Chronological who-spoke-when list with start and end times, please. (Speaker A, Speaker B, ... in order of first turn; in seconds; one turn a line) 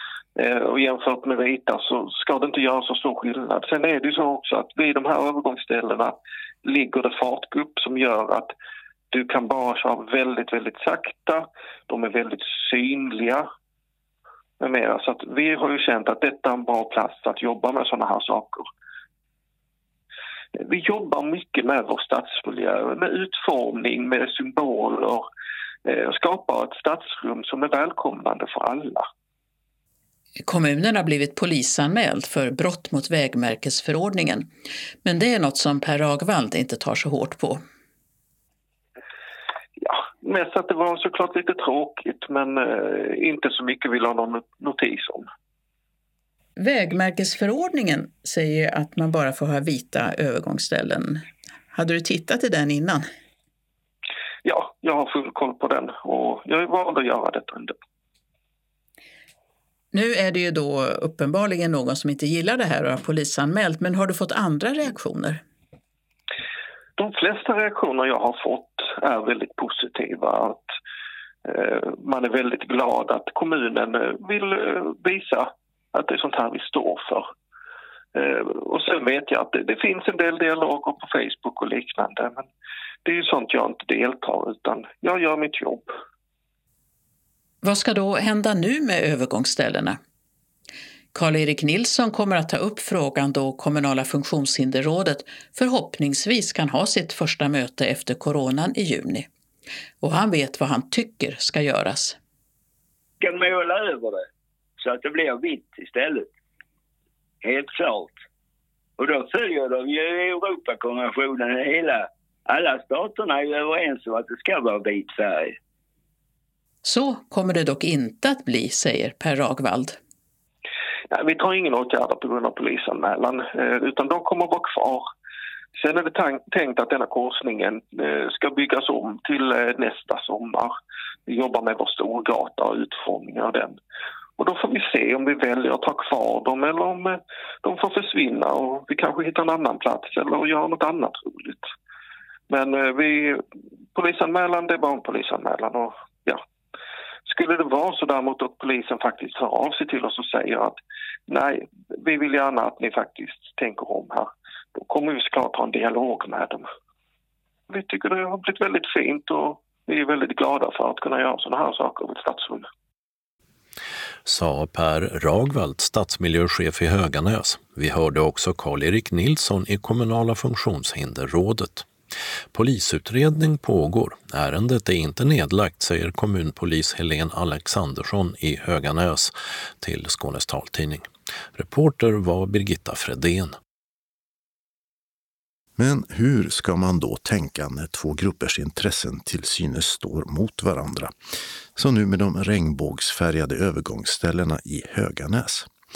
Speaker A: 0.4-8.5
Speaker A: 9.1-13.5
Speaker A: 14.6-18.7
Speaker A: 20.6-25.3
Speaker A: 25.9-29.1
Speaker B: 30.4-34.5
Speaker B: 35.0-37.6
Speaker A: 39.8-45.3
Speaker B: 46.6-53.1
Speaker A: 54.4-57.8
Speaker B: 59.9-65.4
Speaker A: 67.0-70.7
Speaker A: 71.5-77.3
Speaker A: 78.2-82.5
Speaker A: 83.0-85.9
Speaker B: 87.6-90.0
Speaker B: 91.1-99.3
Speaker B: 100.0-102.2
Speaker C: 103.2-104.3
Speaker C: 104.8-106.3
Speaker C: 107.4-108.2
Speaker C: 109.0-115.6
Speaker B: 116.8-120.0
Speaker A: 121.1-125.1
Speaker A: 125.8-130.7
Speaker A: 131.3-133.8
Speaker A: 134.4-141.7
Speaker A: 142.5-143.4
Speaker A: 143.9-146.4
Speaker A: 147.3-156.7
Speaker A: 157.7-162.7
Speaker D: 164.3-171.9
Speaker D: 172.5-183.6
Speaker E: 185.8-191.1
Speaker E: 191.8-195.7